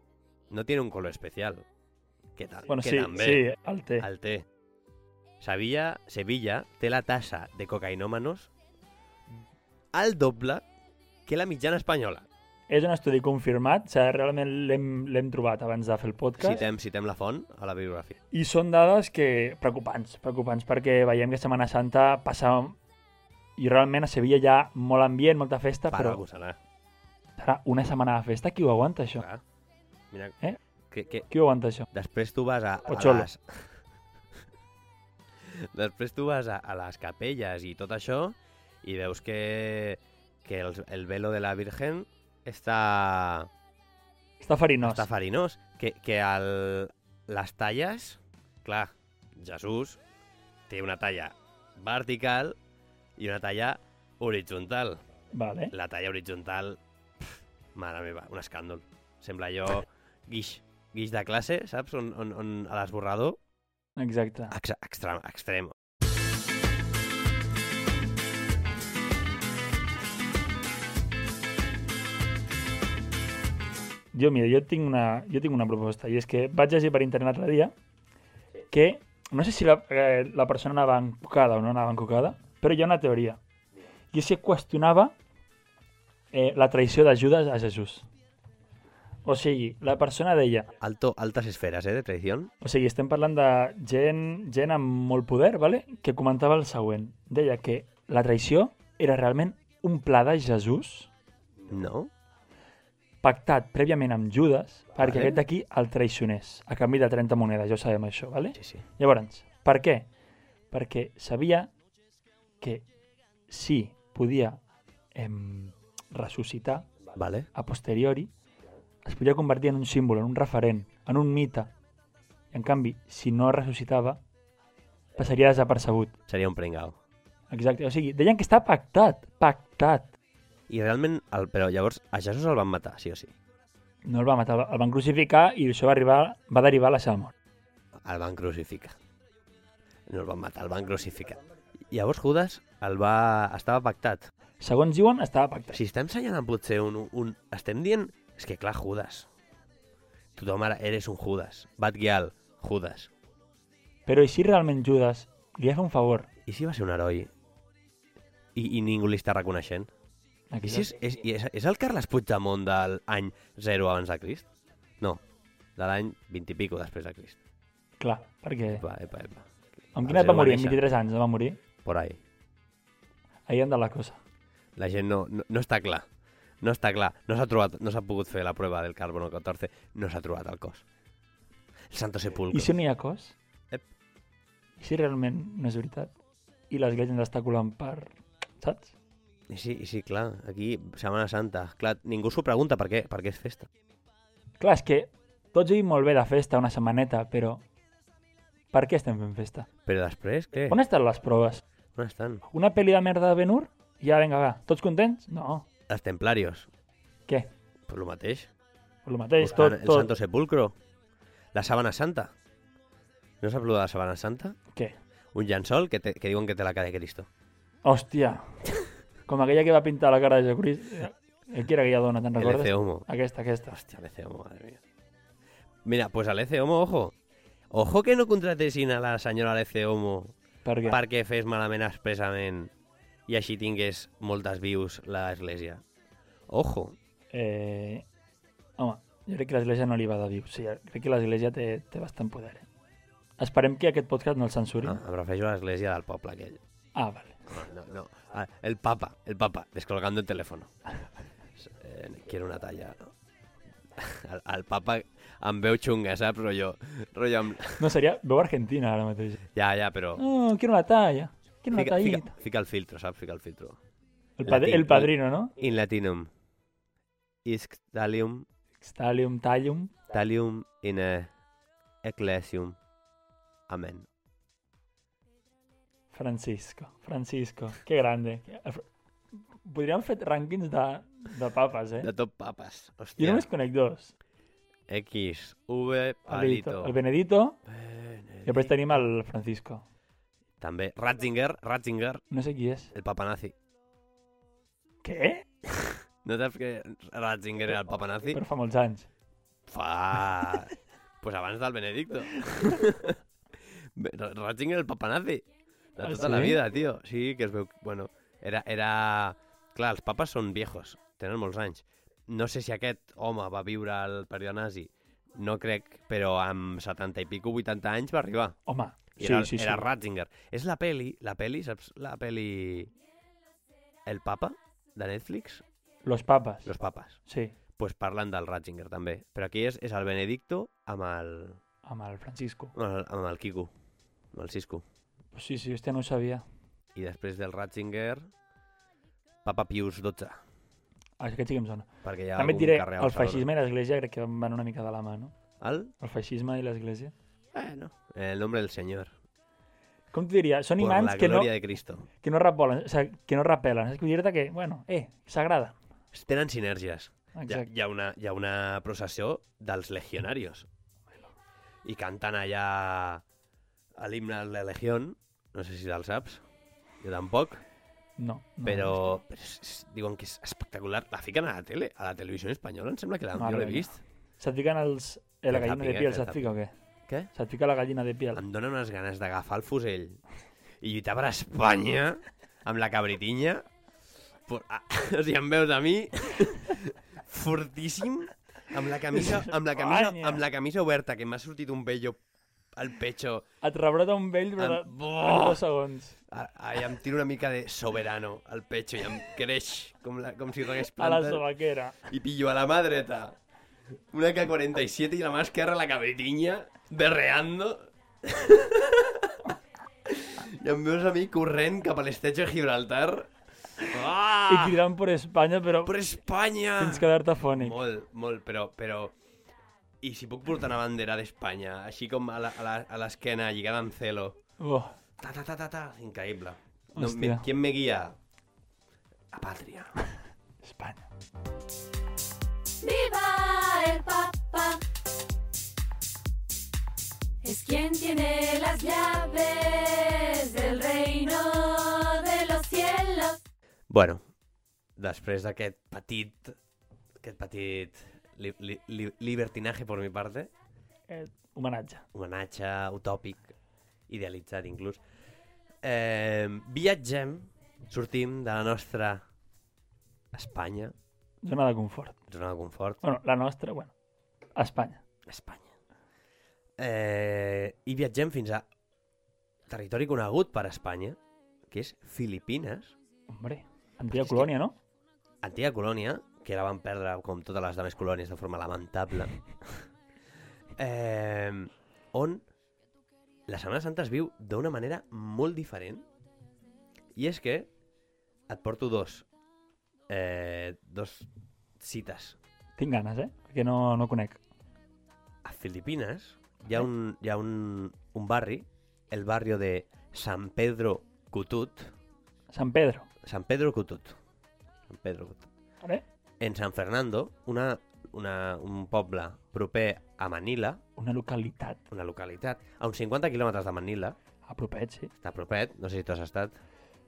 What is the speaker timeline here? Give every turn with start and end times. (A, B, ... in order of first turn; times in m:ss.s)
0:00.5-0:01.7 A
0:02.4-0:03.5 A
0:02.7-0:04.0 B
0:04.0-0:04.4 A
0:05.4-0:08.5 A
0:09.9-0:10.6 A
0:11.2-0:12.3 A
0:12.7-0:16.6 B
0:16.4-0:18.2 A
0:18.3-0:22.8 B
0:23.6-0:26.2 B
0:25.9-0:26.6 A
0:27.4-0:29.2 B
0:29.1-0:29.4 A
0:30.1-0:30.4 A
0:30.9-0:31.3 A
0:31.3-0:31.9 B
0:31.9-0:33.7 A
0:32.9-0:33.3 B
0:35.4-0:43.5 A
0:44.4-0:45.1 B
0:44.8-0:50.0 A
0:50.7-0:52.6 A
0:53.2-0:55.0 A
0:55.3-0:55.7 B
0:55.7-1:03.4 A
1:04.0-1:04.5 B
1:04.5-1:05.7 A
1:14.1-1:17.7 B
1:18.7-1:23.4 B
1:24.1-1:25.1 B
1:26.3-1:28.1 B
1:29.2-1:30.7 B
1:30.8-1:32.5 A
1:32.6-1:41.1 B
1:41.7-1:42.1 A
1:43.2-1:50.1 B
1:45.0-1:45.4 A
1:48.6-1:48.8 A
1:50.7-1:51.7 B
1:52.6-1:52.8 B
1:53.5-1:54.6 B
1:55.1-1:56.9 B
1:57.1-1:57.5 A
1:57.5-1:58.3 B
1:59.0-2:01.7 B
2:02.5-2:04.2 B
2:05.2-2:06.2 B
2:06.3-2:07.0 A
2:07.5-2:10.1 B
2:10.7-2:13.3 A
2:14.0-2:17.3 B
2:18.0-2:19.0 A
2:20.1-2:24.3 A
2:24.6-2:25.8 B
2:25.7-2:29.3 A
2:30.4-2:33.1 A
2:34.0-2:36.3 B
2:36.4-2:37.3 A
2:38.5-2:39.9 A
2:40.5-2:40.9 B
2:40.6-2:44.5 A
2:45.8-2:47.4 A
2:48.0-2:48.8 B
2:48.7-2:50.8 A
2:49.9-2:51.6 B
2:51.8-2:52.2 A
2:53.5-2:54.2 B
2:54.8-2:56.1 A
2:56.6-3:00.8 A
3:01.9-3:02.7 A
3:02.5-3:03.4 B
3:04.8-3:06.1 B
3:06.7-3:08.9 B
3:09.5-3:13.7 A
3:14.6-3:17.6 B
3:18.7-3:19.7 B
3:19.8-3:20.8 A
3:20.7-3:21.6 B
3:21.9-3:22.4 A
3:22.5-3:25.7 B
3:25.9-3:26.7 A
3:27.9-3:28.5 A
3:29.0-3:30.1 B
3:29.4-3:30.8 A
3:31.5-3:32.3 A
3:33.4-3:34.6 A
3:35.3-3:37.3 A
3:37.8-3:38.6 B
3:39.3-3:43.7 B
3:42.4-3:43.0 A
3:43.7-3:44.8 A
3:45.8-3:47.1 A
3:47.7-3:52.7 A
3:50.6-3:51.0 B
3:53.3-3:55.8 A
3:56.5-3:57.0 A
3:57.3-3:58.0 B
3:58.8-4:02.7 B
4:03.4-4:05.0 B
4:04.8-4:06.6 A
4:06.9-4:07.4 B
4:07.5-4:10.7 A
4:11.6-4:13.1 A
4:14.0-4:17.9 A
4:17.8-4:19.4 B
4:19.5-4:20.2 A
4:20.2-4:22.4 B
4:21.7-4:23.8 A
4:24.4-4:25.5 B
4:24.4-4:26.3 A
4:27.4-4:28.5 A
4:28.8-4:29.9 B
4:30.1-4:31.3 A
4:32.0-4:32.8 A
4:33.7-4:34.1 A
4:36.1-4:38.8 B
4:39.6-4:42.1 B
4:42.0-4:43.5 A
4:43.2-4:44.1 B
4:44.9-4:47.0 A
4:46.3-4:47.6 B
4:47.6-4:49.0 A
4:48.4-4:49.8 B
4:50.6-4:52.2 A
4:52.3-4:52.9 B
4:52.9-4:53.5 A
4:55.0-4:55.4 B
4:55.7-4:58.4 A
4:58.3-4:59.1 B
4:59.7-5:03.2 A
5:03.9-5:18.6 A
5:06.0-5:06.6 B
5:18.7-5:19.9 B
5:19.2-5:22.9 A
5:24.0-5:25.6 A
5:26.0-5:26.7 B
5:26.6-5:27.2 A
5:27.2-5:27.5 B
5:27.8-5:31.6 A
5:31.8-5:32.7 B
5:32.7-5:33.7 A
5:34.3-5:34.8 A
5:35.3-5:36.4 B
5:36.9-5:38.3 A
5:39.4-5:40.4 A
5:41.2-5:45.3 B
5:42.0-5:43.5 A
5:45.6-5:45.9 A
5:46.0-5:47.1 B
5:47.5-5:49.1 A
5:50.1-5:51.5 B
5:50.8-5:52.1 A
5:52.2-5:55.8 B
5:56.1-6:00.7 A
5:57.4-5:57.7 B
6:01.8-6:03.2 A
6:04.0-6:06.4 A
6:07.0-6:07.6 A
6:08.2-6:09.1 B
6:08.6-6:14.0 A
6:13.3-6:16.7 B
6:15.5-6:16.4 A
6:17.3-6:18.4 B
6:18.3-6:20.2 A
6:20.8-6:23.7 A
6:24.5-6:32.2 A
6:29.1-6:30.4 B
6:32.7-6:33.4 A
6:33.6-6:36.2 B
6:34.6-6:35.6 A
6:36.3-6:41.4 A
6:41.0-6:42.0 B
6:42.1-6:43.4 A
6:44.1-6:49.5 A
6:50.0-6:54.8 A
6:54.5-6:55.9 B
6:55.8-6:59.1 A
6:56.8-6:57.8 B
7:00.0-7:04.4 A
7:04.6-7:04.9 B
7:05.2-7:08.2 A
7:06.9-7:07.5 B
7:09.3-7:09.9 A
7:10.6-7:11.0 B
7:12.8-7:14.8 C
7:17.4-7:23.4 C
7:23.9-7:24.2 A
7:25.0-7:26.6 A
7:27.2-7:30.5 A
7:31.1-7:32.0 B
7:32.1-7:33.5 A
7:34.1-7:35.0 A
7:35.8-7:39.2 A
7:40.3-7:40.9 A
7:41.4-7:42.2 B
7:42.3-7:43.0 A
7:43.0-7:43.9 B
7:44.6-7:45.0 B
7:45.2-7:45.7 A
7:46.8-7:48.6 A
7:49.7-7:52.9 A
7:53.3-7:54.8 B
7:54.1-7:54.5 A
7:55.4-7:59.8 A
8:00.8-8:02.4 A
8:03.5-8:06.0 A
8:07.2-8:07.7 A
8:08.5-8:09.3 A
8:10.1-8:11.3 A
8:11.8-8:12.4 A
8:12.8-8:14.4 B
8:15.4-8:21.9 A
8:22.5-8:23.1 B
8:23.2-8:24.2 A
8:24.9-8:25.5 A
8:26.4-8:30.8 A
8:31.0-8:31.8 B
8:31.9-8:34.2 A
8:34.5-8:35.1 B
8:35.2-8:36.6 A